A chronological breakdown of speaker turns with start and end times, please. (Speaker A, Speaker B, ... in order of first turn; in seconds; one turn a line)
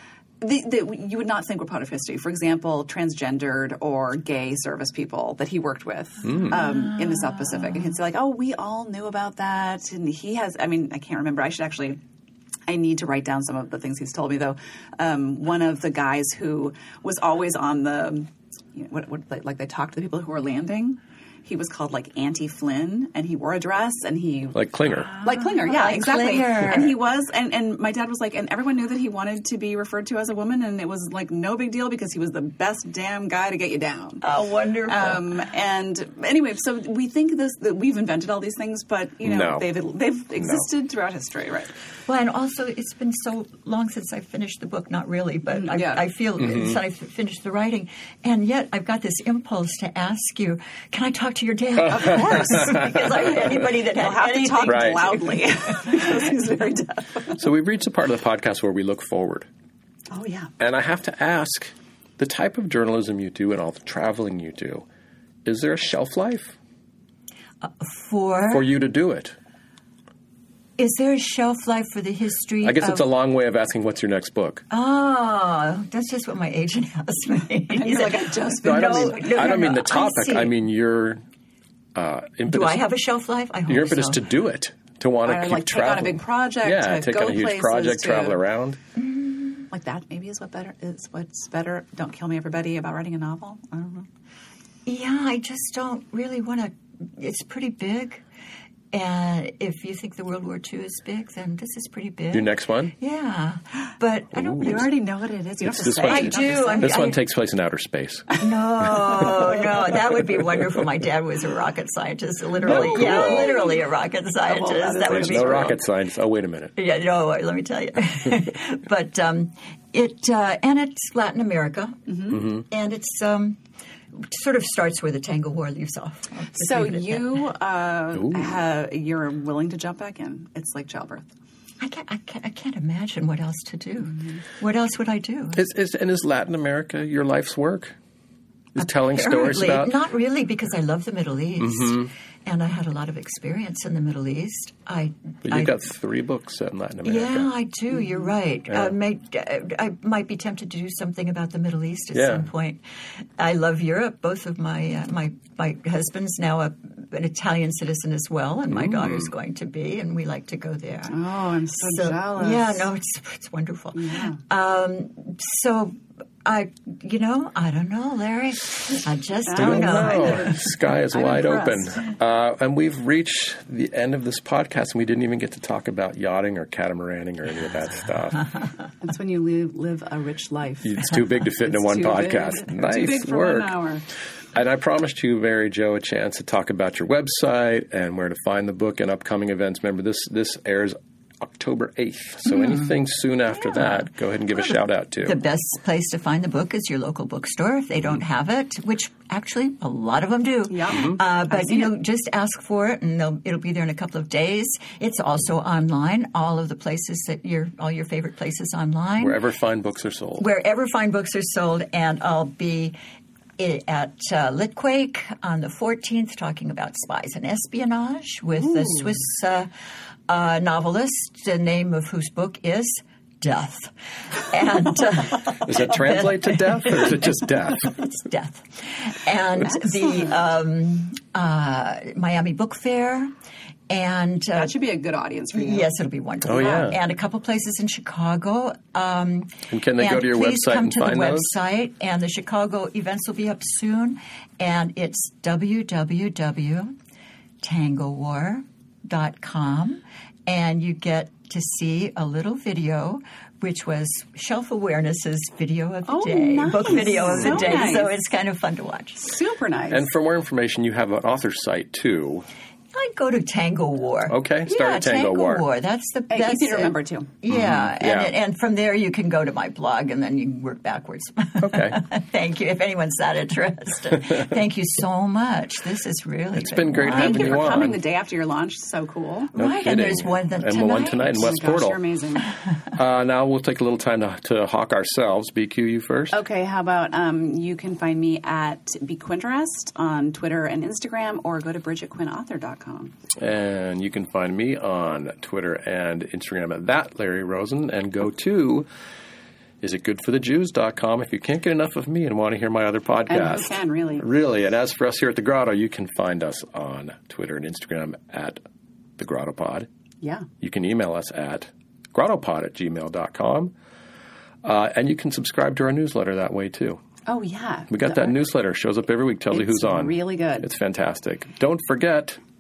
Speaker A: 0.4-12.0
Speaker B: 6.2-6.6
Speaker C: 6.5-7.5
Speaker A: 12.7-34.2
Speaker B: 24.5-25.1
Speaker C: 25.1-27.0
Speaker C: 34.2-35.4
Speaker A: 34.8-41.7
Speaker B: 39.2-39.7
Speaker B: 40.4-40.7
Speaker C: 42.1-55.8
Speaker A: 45.5-46.0
Speaker B: 46.4-46.8
Speaker B: 52.0-53.0
Speaker A: 52.0-52.7
Speaker A: 53.6-57.4
Speaker B: 54.6-55.1
Speaker B: 57.4-59.5
Speaker A: 60.1-60.5
Speaker B: 60.6-64.9
Speaker B: 65.5-66.6
Speaker C: 67.6-68.7
Speaker B: 68.5-69.3
Speaker C: 70.8-73.1
Speaker B: 72.6-74.6
Speaker C: 74.7-80.5
Speaker A: 77.7-79.6
Speaker B: 78.6-81.2
Speaker B: 82.0-82.8
Speaker C: 82.5-84.2
Speaker B: 83.7-88.8
Speaker A: 85.2-88.4
Speaker C: 89.0-89.6
Speaker A: 89.7-94.1
Speaker C: 94.9-98.2
Speaker C: 98.9-104.9
Speaker B: 102.3-102.9
Speaker B: 104.3-104.8
Speaker A: 104.6-107.0
Speaker B: 105.7-109.6
Speaker C: 106.0-107.2
Speaker C: 108.4-115.8
Speaker B: 110.2-110.5
Speaker A: 112.6-113.8
Speaker B: 112.6-113.5
Speaker A: 114.5-115.8
Speaker B: 115.1-116.7
Speaker C: 116.8-123.6
Speaker A: 122.1-122.4
Speaker C: 124.1-127.5
Speaker A: 126.5-131.3
Speaker B: 128.2-128.5
Speaker C: 131.8-135.6
Speaker B: 135.6-137.9
Speaker B: 138.8-140.0
Speaker C: 138.8-145.7
Speaker B: 141.6-142.1
Speaker B: 145.4-147.5
Speaker C: 147.1-152.8
Speaker B: 148.7-148.9
Speaker B: 152.1-152.5
Speaker C: 153.4-161.2
Speaker B: 158.7-159.3
Speaker A: 161.1-162.9
Speaker C: 161.8-170.5
Speaker A: 163.9-164.4
Speaker A: 169.5-172.0
Speaker B: 169.6-178.5
Speaker A: 179.0-184.0
Speaker B: 180.8-183.7
Speaker B: 184.5-195.4
Speaker C: 193.6-209.4
Speaker A: 200.7-201.9
Speaker B: 200.9-201.2
Speaker B: 209.2-210.5
Speaker C: 210.4-213.0
Speaker C: 213.6-219.7
Speaker C: 220.3-223.9
Speaker C: 224.4-227.3
Speaker B: 225.6-228.0
Speaker C: 228.0-233.3
Speaker A: 229.7-230.2
Speaker C: 233.9-234.7
Speaker A: 234.6-235.9
Speaker C: 235.5-247.0
Speaker B: 236.4-237.0
Speaker B: 239.7-241.6
Speaker C: 247.6-259.2
Speaker A: 256.1-258.1
Speaker B: 257.3-257.8
Speaker A: 259.2-260.0
Speaker B: 259.9-262.5
Speaker C: 262.9-277.8
Speaker B: 264.3-265.6
Speaker A: 266.3-267.3
Speaker B: 267.5-268.3
Speaker B: 271.6-272.0
Speaker B: 276.6-278.0
Speaker A: 277.0-279.5
Speaker C: 279.5-281.5
Speaker B: 279.6-282.0
Speaker A: 281.3-282.5
Speaker B: 282.9-286.4
Speaker A: 286.3-293.1
Speaker B: 293.4-298.9
Speaker B: 299.8-308.6
Speaker A: 303.3-304.3
Speaker B: 309.2-309.9
Speaker A: 310.2-310.5
Speaker B: 310.6-313.7
Speaker B: 314.6-317.0
Speaker A: 317.3-318.4
Speaker B: 317.9-322.4
Speaker A: 319.5-320.7